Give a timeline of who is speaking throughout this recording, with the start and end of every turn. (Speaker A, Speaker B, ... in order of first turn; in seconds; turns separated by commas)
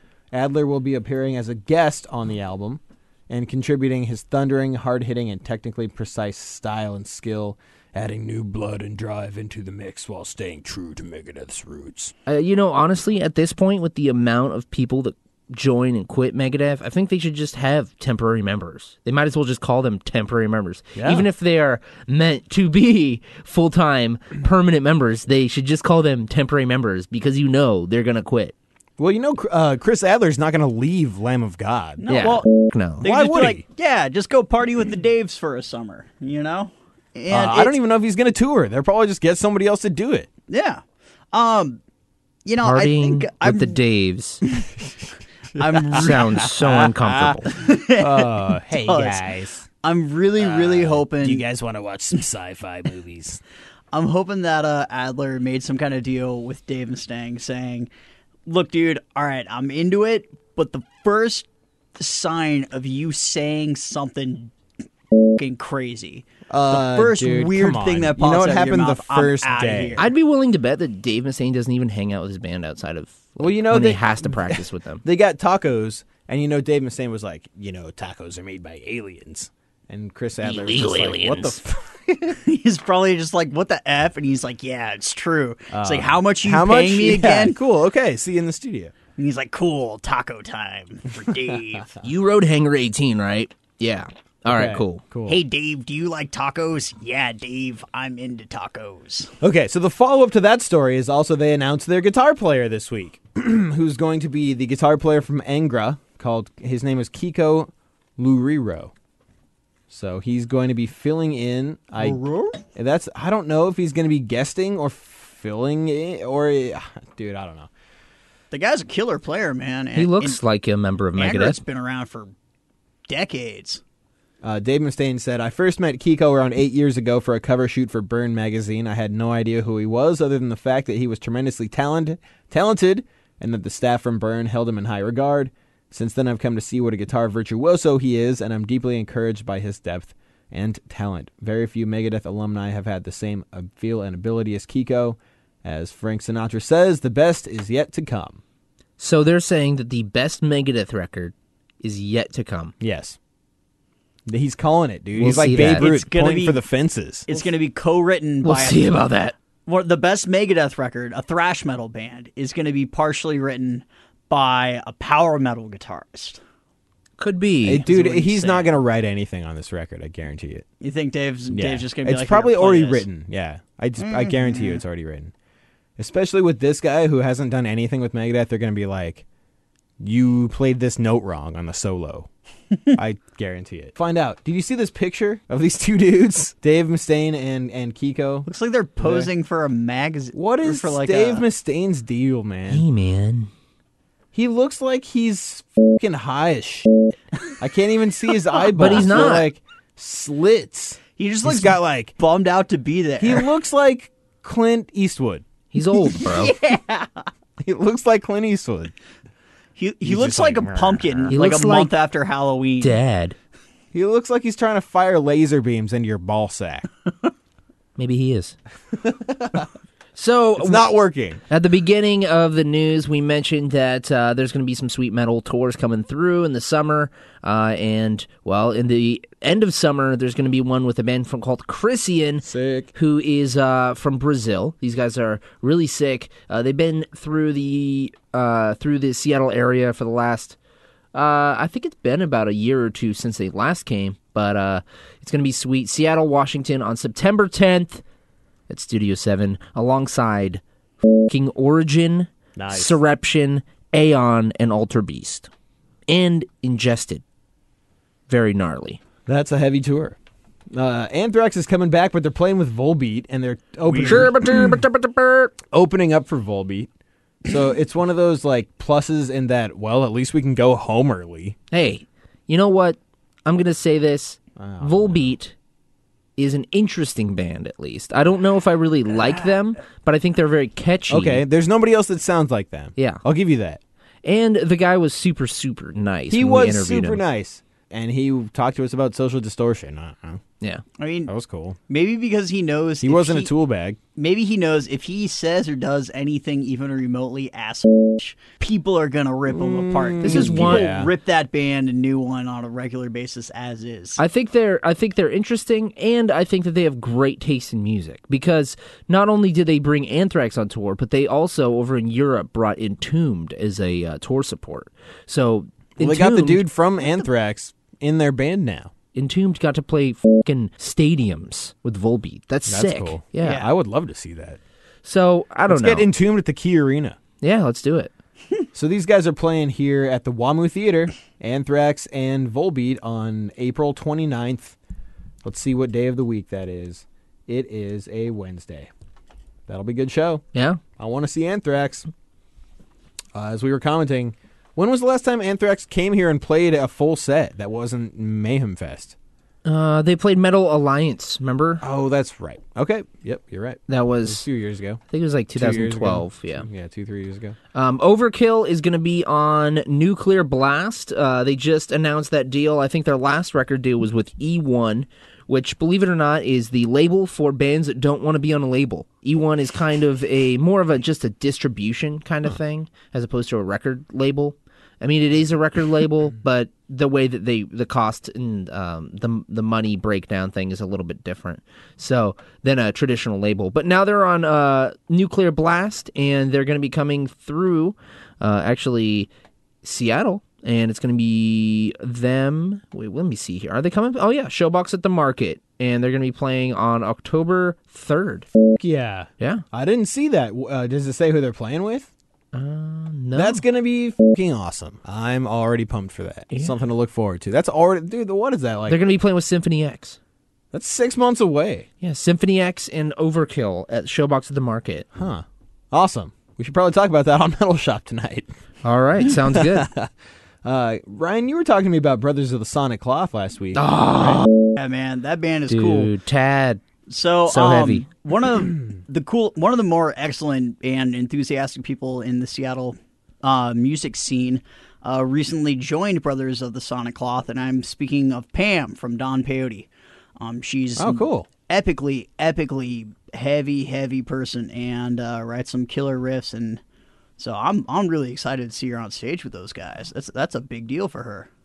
Speaker A: 0.3-12.1, Speaker B: 12.3-28.5, Speaker A: 21.0-21.3, Speaker A: 29.0-32.4, Speaker C: 32.0-32.5, Speaker B: 32.1-33.0, Speaker C: 33.0-37.8, Speaker A: 33.0-33.6, Speaker A: 37.3-40.3, Speaker C: 40.5-40.8, Speaker C: 41.3-41.8, Speaker C: 42.5-43.8, Speaker B: 42.6-44.4, Speaker A: 45.6-49.7, Speaker C: 45.6-46.5, Speaker B: 45.9-47.5, Speaker C: 47.5-49.3, Speaker C: 49.8-51.5, Speaker A: 50.4-53.4, Speaker C: 53.9-57.9, Speaker C: 58.5-61.5, Speaker C: 62.0-64.5, Speaker C: 65.4-70.1, Speaker A: 66.5-70.0, Speaker B: 70.0-75.0, Speaker A: 73.4-82.4, Speaker B: 80.4-81.6, Speaker C: 82.4-87.6, Speaker A: 85.7-88.9, Speaker C: 89.2-91.9, Speaker B: 92.0-95.0, Speaker A: 94.5-95.4, Speaker C: 95.3-99.3, Speaker A: 99.4-108.9, Speaker A: 109.9-112.2, Speaker C: 112.0-112.6, Speaker A: 112.8-117.7, Speaker C: 118.5-120.4, Speaker B: 120.0-121.6, Speaker C: 121.2-122.3, Speaker C: 123.1-123.8, Speaker A: 124.4-148.4, Speaker B: 149.0-152.7, Speaker A: 152.8-153.2, Speaker A: 154.3-157.3, Speaker B: 155.2-155.9, Speaker C: 155.5-156.6, Speaker C: 157.3-159.0, Speaker B: 158.4-159.3, Speaker C: 159.7-166.4, Speaker B: 167.2-167.9, Speaker A: 167.7-170.7, Speaker C: 167.9-168.7, Speaker C: 170.8-173.1, Speaker A: 171.5-175.3, Speaker C: 174.0-174.8, Speaker A: 176.0-179.2, Speaker A: 180.0-182.3, Speaker A: 182.9-188.5, Speaker C: 188.5-191.4, Speaker A: 189.0-189.3, Speaker A: 190.3-192.8, Speaker B: 192.7-193.5, Speaker A: 194.3-196.9, Speaker A: 197.6-202.2, Speaker B: 198.8-199.5, Speaker C: 198.8-199.3, Speaker C: 201.2-203.5, Speaker A: 203.2-205.4, Speaker B: 205.7-206.6, Speaker C: 206.1-207.2, Speaker A: 207.6-208.9, Speaker C: 209.8-213.0, Speaker A: 210.0-211.4, Speaker B: 211.3-211.9, Speaker B: 212.8-213.4, Speaker A: 213.9-216.9, Speaker B: 218.0-218.6, Speaker A: 218.9-219.7, Speaker B: 220.2-220.9, Speaker A: 220.6-221.4, Speaker B: 221.5-240.6, Speaker A: 232.4-232.9, Speaker B: 241.1-248.0, Speaker B: 248.7-255.5, Speaker A: 252.6-253.0, Speaker B: 256.1-257.2, Speaker B: 258.3-259.0, Speaker A: 259.3-260.2, Speaker A: 260.7-264.8, Speaker B: 264.0-265.5, Speaker A: 265.7-266.9, Speaker A: 267.5-271.6, Speaker B: 271.7-275.6, Speaker A: 274.6-275.3, Speaker B: 276.4-281.4, Speaker A: 281.1-283.8, Speaker B: 283.0-283.2, Speaker B: 284.2-287.2, Speaker A: 286.3-290.4, Speaker C: 291.0-291.3, Speaker A: 291.3-291.8, Speaker C: 291.9-293.5, Speaker A: 293.0-294.0, Speaker C: 294.2-304.2, Speaker A: 299.5-301.1, Speaker B: 300.2-300.9, Speaker B: 304.2-316.6, Speaker A: 316.0-318.9, Speaker B: 319.1-323.6, Speaker A: 322.7-324.6, Speaker C: 323.4-323.7, Speaker B: 325.0-326.1, Speaker A: 325.7-327.2, Speaker B: 327.4-328.1, Speaker A: 328.7-334.8, Speaker A: 335.4-338.9, Speaker A: 339.7-340.4, Speaker B: 340.5-340.8, Speaker A: 341.0-342.1, Speaker A: 343.4-349.1, Speaker B: 349.6-351.8, Speaker A: 351.8-355.0, Speaker B: 353.9-354.5, Speaker B: 355.1-356.7, Speaker A: 355.5-357.6, Speaker B: 357.7-389.3, Speaker B: 389.8-398.5, Speaker A: 398.6-402.1, Speaker B: 402.5-403.6, Speaker A: 403.4-409.0, Speaker B: 406.5-406.8, Speaker B: 408.9-410.2, Speaker A: 410.7-411.9, Speaker B: 412.0-415.1, Speaker A: 415.1-418.5, Speaker B: 418.8-419.9, Speaker A: 419.4-420.1, Speaker A: 420.6-424.4, Speaker B: 423.7-424.5, Speaker C: 424.8-426.1, Speaker B: 425.7-426.8, Speaker C: 427.1-439.9, Speaker B: 427.5-428.1, Speaker C: 440.4-446.8, Speaker A: 441.0-441.5, Speaker C: 447.4-451.5